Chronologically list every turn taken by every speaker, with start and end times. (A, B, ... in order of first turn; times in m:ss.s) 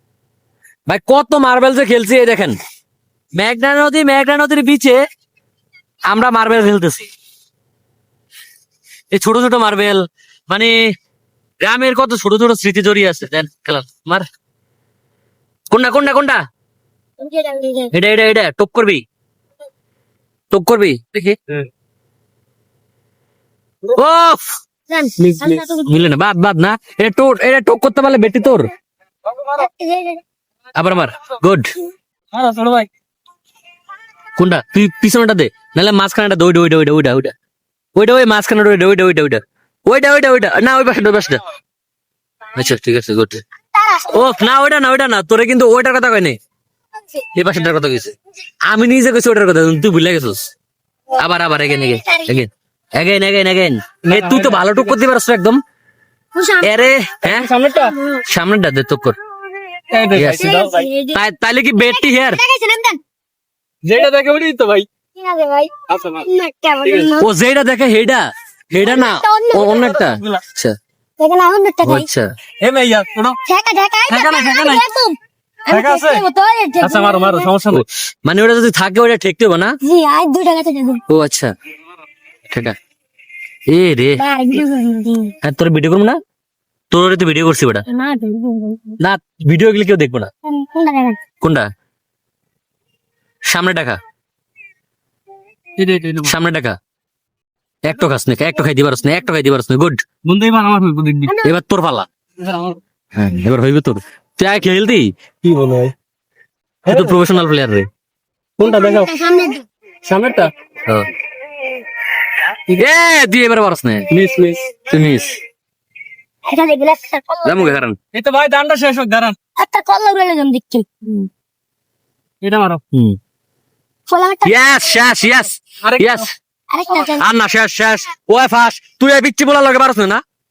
0:00.9-0:02.6 A
0:03.4-0:05.0 A
0:06.1-0:07.1 A
0:09.1-0:10.8 A
0:11.6-0:14.2 A
0:15.7-0:16.4 A
0:17.2-0:17.9 B
0:17.9-0:19.0 A
0:20.5-0:21.4 A
0:23.9-0:24.5 A
0:24.9-0:25.9 B
0:25.2-0:25.6 C
0:25.8-0:28.7 A
0:29.5-0:30.2 B
0:30.8-0:31.7 A
0:32.3-0:32.9 C
0:34.4-0:37.3 A
0:38.0-0:41.4 A
0:42.5-0:43.4 A
0:43.7-0:44.4 B
0:44.1-0:46.4 A
0:47.3-0:48.1 A
0:48.7-0:50.5 A
0:51.2-0:55.6 A
0:52.0-0:52.3 B
0:54.1-0:55.0 C
0:56.3-0:56.7 B
0:56.6-0:57.5 A
0:57.2-0:57.9 C
0:57.7-0:58.2 B
0:58.2-0:59.2 A
0:59.9-1:00.9 C
1:00.1-1:00.5 A
1:00.3-1:01.2 B
1:01.1-1:02.4 A
1:01.9-1:03.0 B
1:03.8-1:04.9 C
1:05.2-1:07.3 B
1:05.9-1:06.3 C
1:06.8-1:07.1 C
1:07.2-1:10.8 A
1:08.8-1:10.0 B
1:10.0-1:10.4 C
1:11.2-1:12.1 B
1:11.8-1:12.3 A
1:12.6-1:13.4 C
1:13.4-1:17.5 B
1:14.1-1:14.8 C
1:15.7-1:16.2 C
1:16.8-1:17.8 C
1:17.7-1:19.7 A
1:19.8-1:21.0 B
1:21.1-1:21.5 A
1:22.5-1:22.8 A
1:23.7-1:24.2 A
1:24.2-1:25.3 B
1:25.4-1:26.2 A
1:26.9-1:27.8 A
1:27.9-1:29.0 B
1:29.0-1:30.3 A
1:30.4-1:31.2 B
1:31.4-1:31.7 A
1:33.5-1:34.0 A
1:35.8-1:36.4 C
1:36.2-1:36.8 A
1:37.8-1:40.0 A
1:40.2-1:41.3 C
1:41.2-1:41.5 B
1:41.4-1:42.1 A
1:42.4-1:42.8 C
1:43.1-1:45.1 A
1:45.4-1:45.9 C
1:46.8-1:47.2 C
1:46.9-1:47.9 A
1:48.6-1:49.1 C
1:48.6-1:49.6 B
1:50.0-1:50.5 C
1:52.7-1:54.1 A
1:54.1-1:54.8 C
1:54.9-1:55.3 A
1:56.5-1:57.8 B
1:57.4-1:58.0 A
1:58.1-1:59.4 C
1:59.6-2:01.3 B
2:02.4-2:02.8 C
2:02.9-2:03.2 A
2:04.1-2:04.7 B
2:04.4-2:06.3 A
2:05.8-2:06.3 C
2:06.7-2:07.2 B
2:07.1-2:10.2 A